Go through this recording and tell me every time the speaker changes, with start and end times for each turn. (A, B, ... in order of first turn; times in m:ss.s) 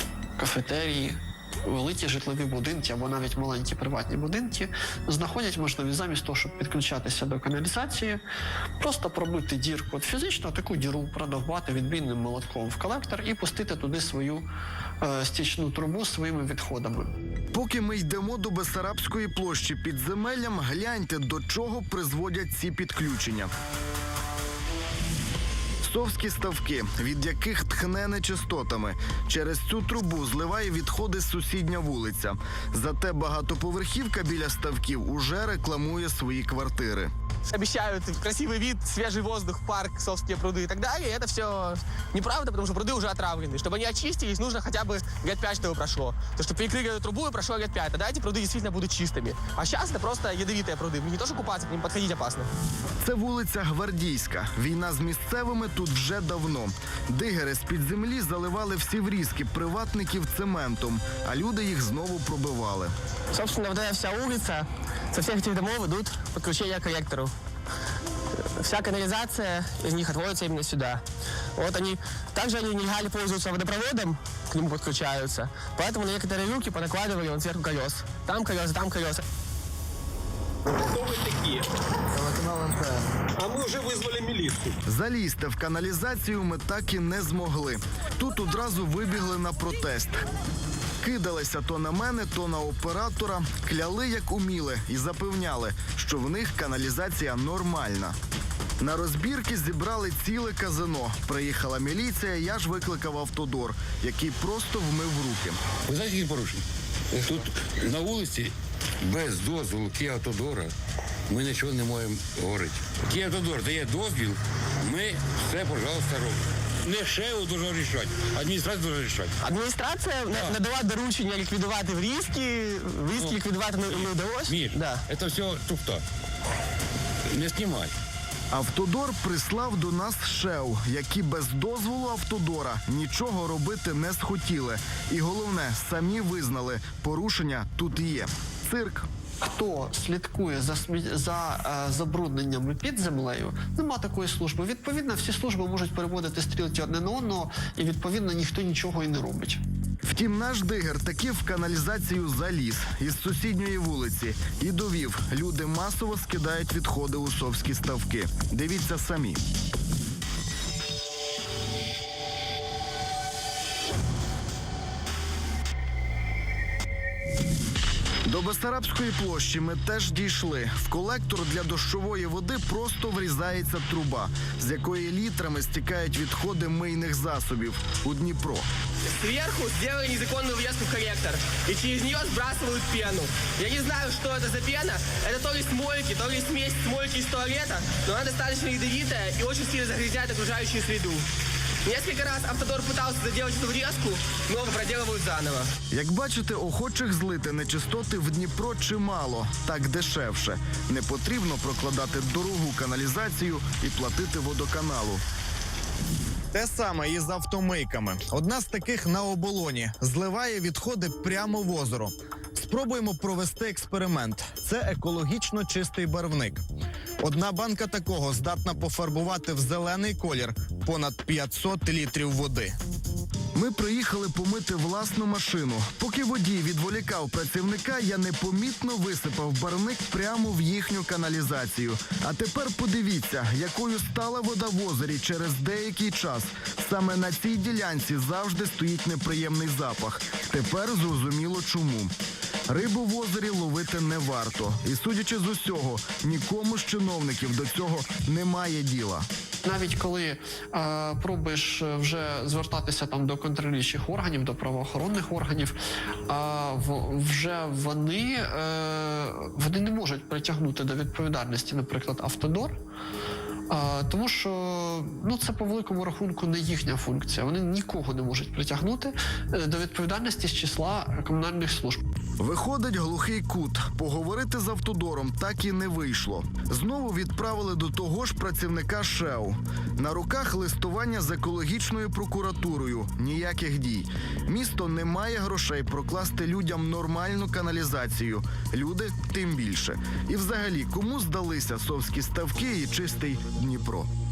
0:00.4-0:08.2 A
0:08.8-0:14.5 A
0:15.0-0:17.1 A
0:17.5-0:23.5 B
0:25.8-0:37.1 B
0:37.5-0:52.5 C
0:53.0-1:02.9 B
1:03.3-1:07.3 C
1:08.6-1:11.0 C
1:11.6-1:19.2 C
1:20.8-1:21.6 D
1:23.4-1:24.8 D
1:24.9-1:30.2 B
1:31.0-1:38.2 B
1:38.8-1:45.6 B
1:45.9-1:50.7 E
1:51.3-1:59.4 E
1:59.4-2:05.0 C
2:00.3-2:00.6 E
2:03.1-2:06.0 E
2:07.3-2:07.9 E
2:08.5-2:19.1 B
2:19.4-2:29.6 A
2:30.0-2:39.4 B
2:48.3-2:58.7 B
2:59.1-3:11.2 C
3:11.8-3:15.7 C
3:15.9-3:25.2 B
3:26.5-3:36.6 F
3:29.6-3:30.0 B
3:32.7-3:33.5 B
3:34.3-3:34.7 B
3:37.2-3:42.5 F
3:38.7-3:39.2 B
3:39.9-3:42.7 B
3:43.5-4:02.1 B
4:02.7-4:09.3 B
4:09.6-4:22.8 A
4:23.7-4:32.0 A
4:32.4-4:54.1 B